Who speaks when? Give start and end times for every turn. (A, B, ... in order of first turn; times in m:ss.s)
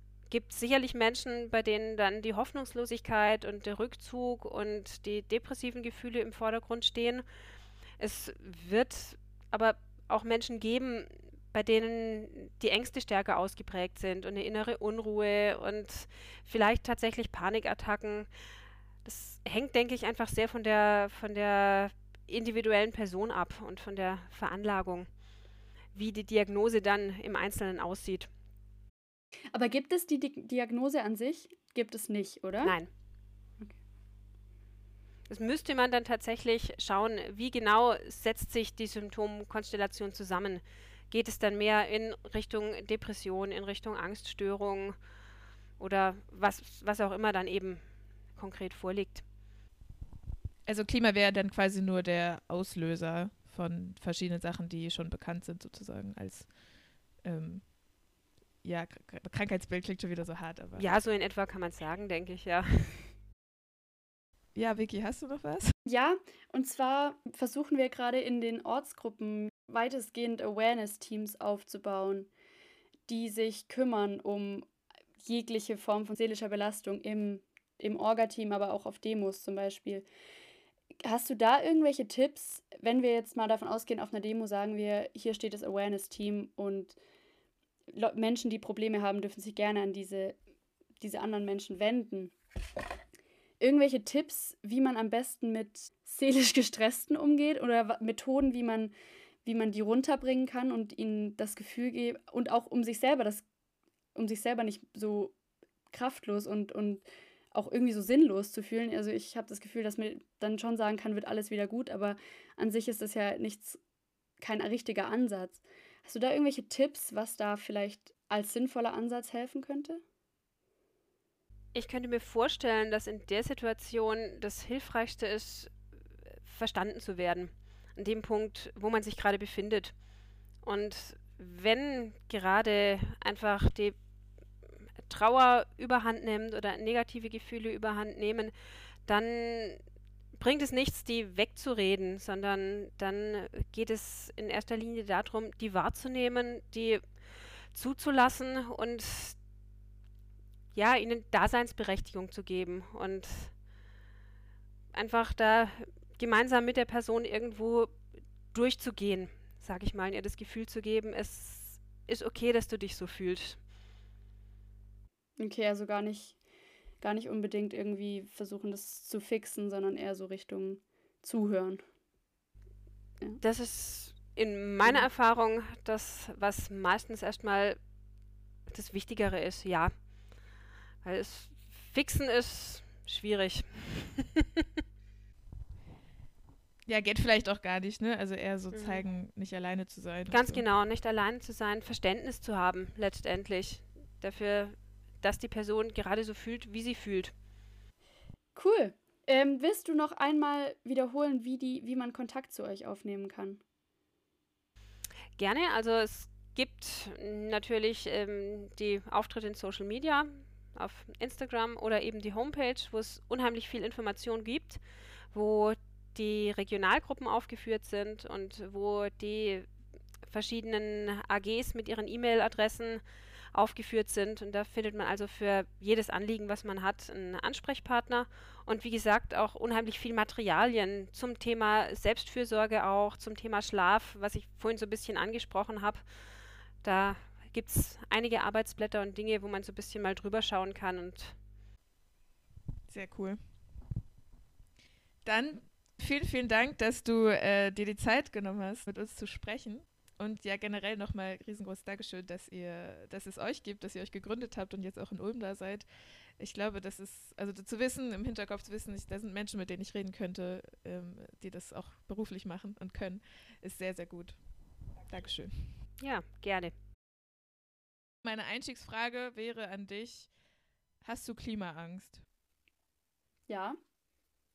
0:00.3-0:07.2 A
0:08.0-0:18.3 A
0:19.0-0:25.1 A
0:25.9-0:28.3 A
0:29.5-0:32.8 B
0:32.6-0:32.9 A
0:35.3-0:45.0 A
0:45.8-0:49.2 A
0:50.7-0:56.5 C
0:57.2-0:57.7 C
0:58.6-1:00.9 C
1:00.8-1:03.1 A
1:04.6-1:05.7 C
1:05.9-1:12.3 B
1:13.1-1:14.7 B
1:15.2-1:20.0 B
1:21.0-1:27.0 B
1:27.9-1:30.4 B
1:31.0-1:32.3 B
1:33.6-1:38.9 B
1:39.4-1:43.4 B
1:44.2-1:45.3 B
1:45.9-1:53.8 B
1:54.4-2:00.0 B
2:01.7-2:05.8 A
2:06.4-2:10.0 A
2:10.6-2:14.0 A
2:15.0-2:18.5 A
2:19.1-2:19.8 A
2:20.4-2:27.1 A
2:27.7-2:29.4 A
2:30.7-2:33.5 A
2:34.9-2:43.6 A
2:45.4-2:46.4 B
2:47.0-2:51.8 B
2:53.4-2:57.8 A
2:58.7-3:00.0 A
3:01.0-3:04.6 A
3:06.9-3:10.6 C
3:08.7-3:09.0 A
3:10.3-3:17.3 A
3:18.6-3:23.6 B
3:25.4-3:39.7 A
3:40.2-3:56.1 A
3:56.8-4:01.4 A
4:02.9-4:03.4 C
4:05.2-4:15.8 C
4:16.4-4:24.4 C
4:25.1-4:25.8 C
4:26.0-4:26.7 A
4:28.2-4:30.3 C
4:31.0-4:32.2 C
4:33.5-4:33.8 B